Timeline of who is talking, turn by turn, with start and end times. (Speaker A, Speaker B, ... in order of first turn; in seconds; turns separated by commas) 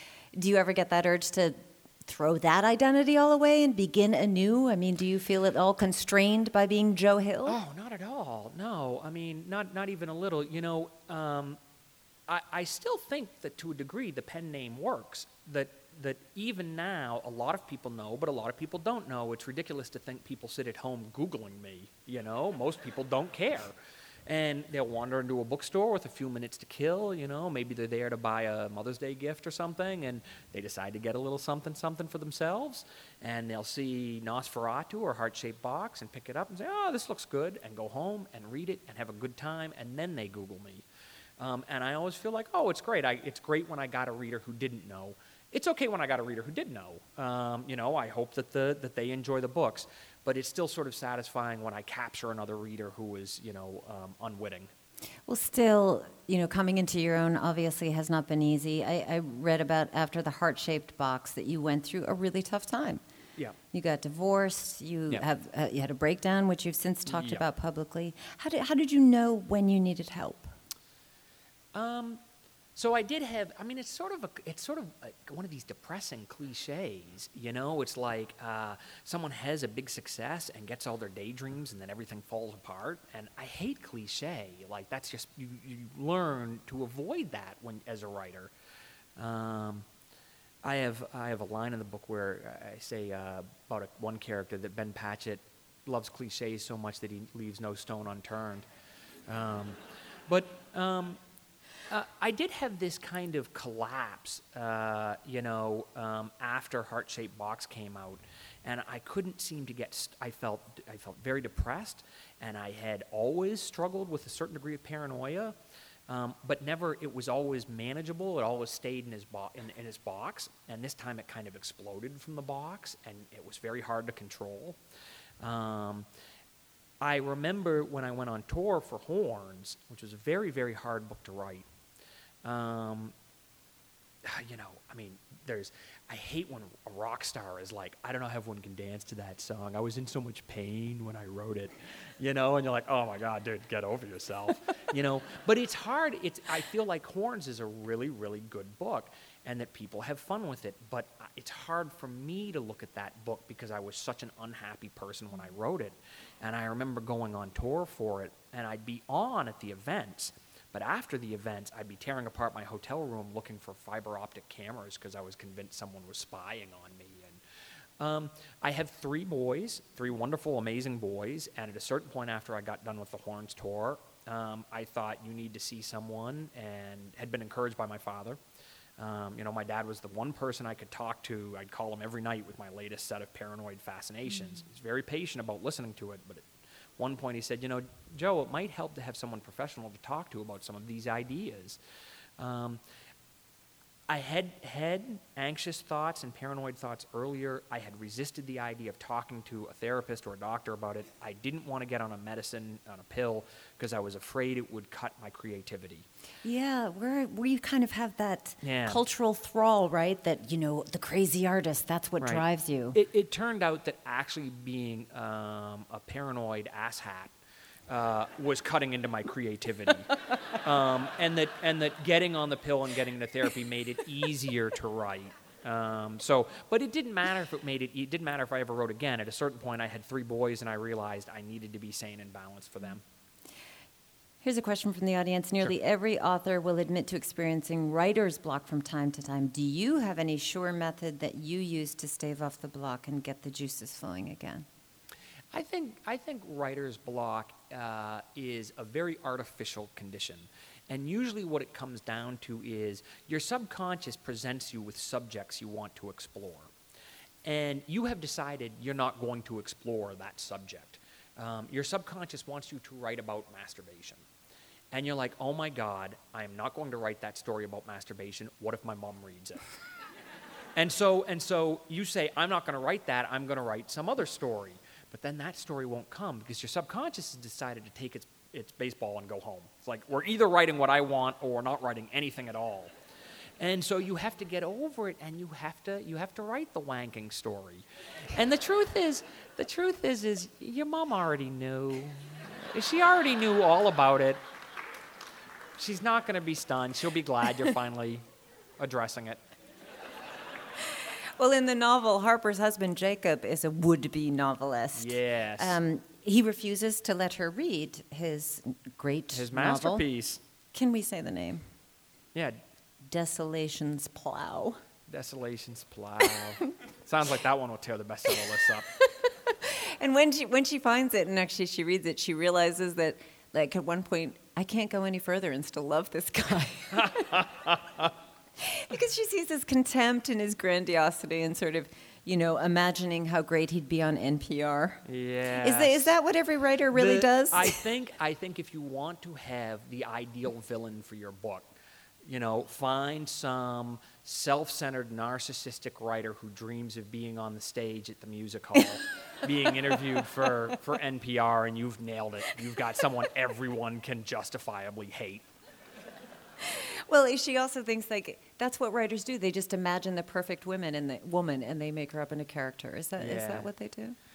Speaker A: 0.3-7.6, Speaker B: 7.5-11.6, Speaker B: 12.3-23.8, Speaker B: 24.3-40.9, Speaker B: 41.4-54.7, Speaker A: 55.3-63.0, Speaker A: 63.7-70.5, Speaker B: 67.1-67.4, Speaker B: 71.7-72.2, Speaker B: 72.8-88.5, Speaker B: 89.2-89.9, Speaker B: 90.6-98.7, Speaker B: 99.3-101.2, Speaker B: 101.9-115.6, Speaker B: 116.1-124.8, Speaker B: 125.4-126.1, Speaker B: 127.0-131.7, Speaker B: 132.4-133.2, Speaker B: 134.2-167.4, Speaker B: 168.0-178.4, Speaker B: 179.0-191.8, Speaker B: 192.4-192.8, Speaker B: 194.1-206.1, Speaker A: 206.4-213.0, Speaker B: 208.6-209.0, Speaker B: 212.2-217.3, Speaker B: 217.9-233.0, Speaker A: 234.4-244.7, Speaker B: 245.5-256.7, Speaker B: 257.4-264.2, Speaker B: 264.9-269.7, Speaker B: 270.8-282.9, Speaker B: 283.6-294.4, Speaker B: 295.8-298.2, Speaker B: 298.8-299.4, Speaker A: 301.4-310.1, Speaker B: 304.9-305.8, Speaker B: 309.3-310.4, Speaker A: 310.7-311.6, Speaker B: 312.3-312.6, Speaker A: 313.0-314.8, Speaker B: 315.1-318.9, Speaker A: 319.2-327.3, Speaker B: 326.9-328.1, Speaker A: 328.6-337.8, Speaker B: 335.1-336.2, Speaker B: 336.9-355.5, Speaker A: 356.6-364.2, Speaker B: 363.2-363.7